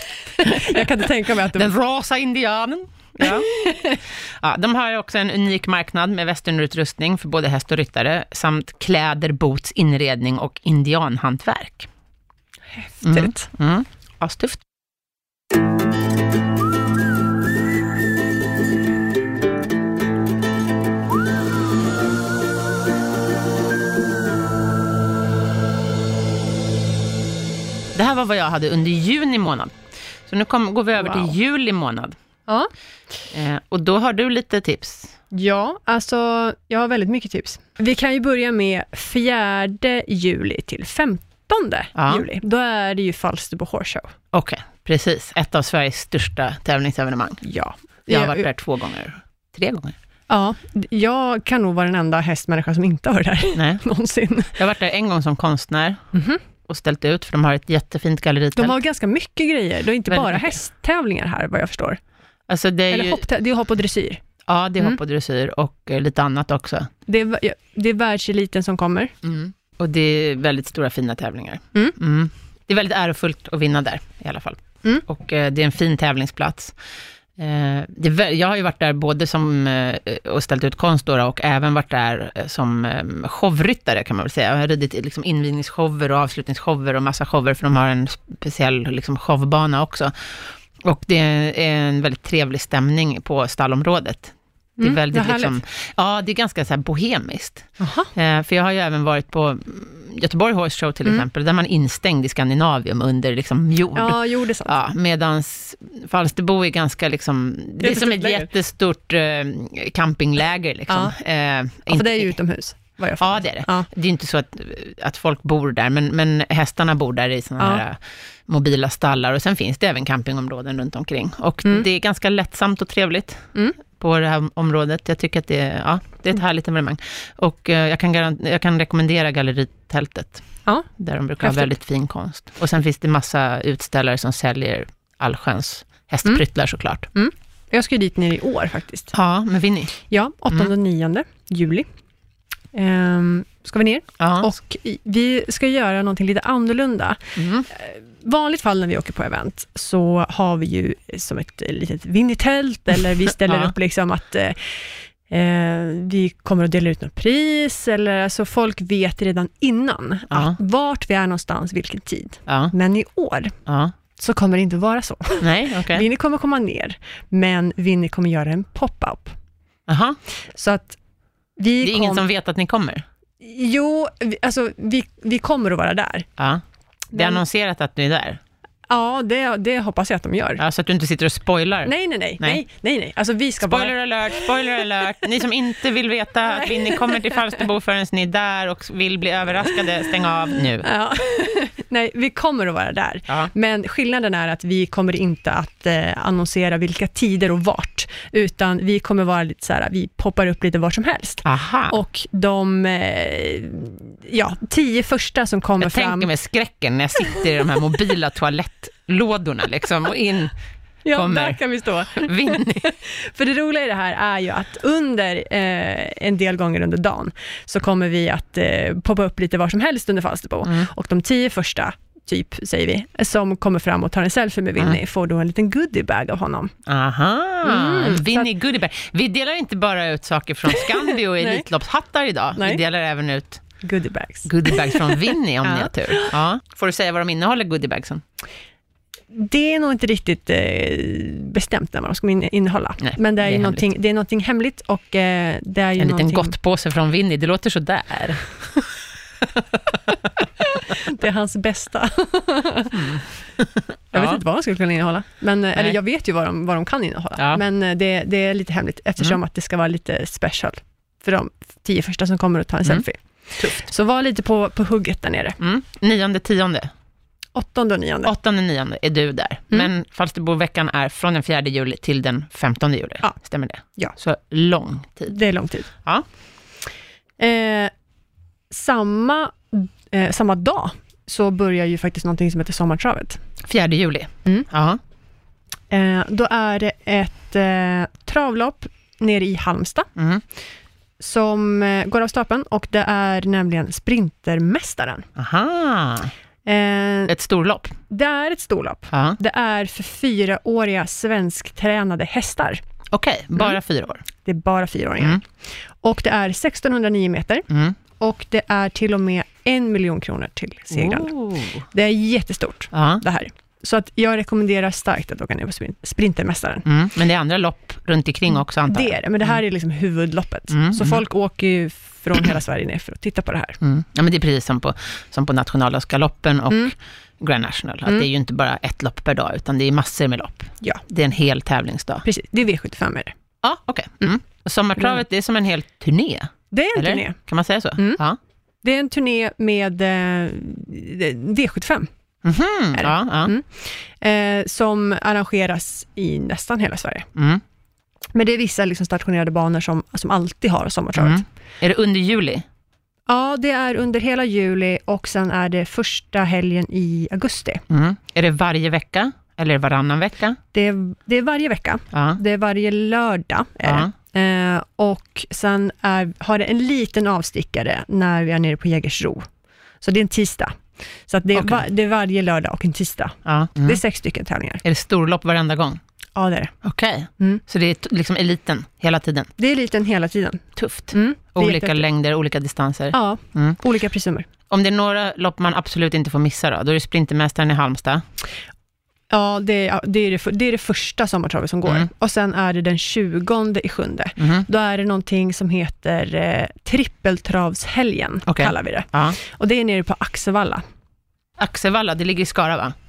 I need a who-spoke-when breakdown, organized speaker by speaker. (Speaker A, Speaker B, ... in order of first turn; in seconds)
Speaker A: 0.3-1.7, 3.2-4.0, 12.7-13.5, 31.0-31.3, 32.5-32.7, 35.3-44.1, 47.4-48.5, 50.3-54.5, 56.1-56.4, 58.6-62.0, 62.9-64.2, 67.1-69.1, 94.8-95.6, 97.8-98.1, 103.9-104.8, 107.8-108.5, 110.9-111.1, 111.9-113.9, 117.6-117.8, 131.4-131.7, 137.1-139.1, 139.9-141.9, 142.7-163.6, 164.2-169.3, 170.5-171.0, 171.6-172.2, 173.4-176.3, 177.1-177.4, 178.9-180.6, 181.8-184.6, 186.5-187.6, 190.8-206.3, 211.0-226.7, 227.6-228.5, 230.7-231.7, 232.6-232.8, 233.8-236.3, 239.3-246.6, 250.6-253.2, 254.1-265.6, 267.5-268.3, 273.2-274.2, 275.3-275.9, 277.4-277.9, 278.7-283.4, 285.9-290.1, 291.2-295.3, 296.6-297.3, 298.1-302.8, 304.4-316.9, 318.9-323.8, 332.2-333.4, 336.7-337.4, 337.9-338.2, 338.8-342.1, 342.9-347.3, 348.3-351.4, 353.3-357.8, 360.7-374.8, 376.4-376.8, 379.6-382.1, 383.1-384.5, 389.3-400.8
Speaker B: 0.6-0.8, 1.5-3.5, 4.1-11.9, 13.0-14.6, 27.9-32.1, 33.3-35.1, 41.9-42.2, 44.3-47.4, 48.1-50.0, 53.5-53.8, 54.5-56.1, 56.6-58.8, 60.1-60.5, 62.5-63.2, 64.5-66.9, 69.2-76.8, 77.3-112.3, 113.2-137.1, 139.1-139.9, 144.2-144.5, 147.3-147.7, 153.4-153.7, 160.3-160.6, 162.5-162.7, 163.7-163.9, 165.4-166.1, 169.9-170.2, 171.8-173.1, 176.4-178.4, 180.6-182.6, 183.6-190.9, 201.4-201.9, 205.8-210.5, 211.1-212.9, 220.6-220.9, 226.8-233.8, 234.4-238.2, 243.0-243.8, 246.0-248.9, 249.4-249.9, 252.9-254.4, 263.6-263.8, 265.6-266.9, 268.2-275.4, 276.0-276.2, 283.6-285.0, 290.1-290.4, 295.4-296.3, 297.3-297.9, 299.1-299.4, 303.1-304.2, 307.7-307.9, 310.9-311.8, 312.9-313.2, 316.9-319.6, 320.7-321.2, 323.8-332.2, 333.6-338.4, 342.4-343.5, 347.3-347.6, 351.2-352.6, 357.9-360.6, 362.1-362.4, 363.8-364.1, 371.5-371.8, 373.4-374.0, 374.8-376.0, 376.8-379.5, 380.8-383.8, 384.7-388.2, 394.4-394.6, 398.5-399.4, 401.6-402.9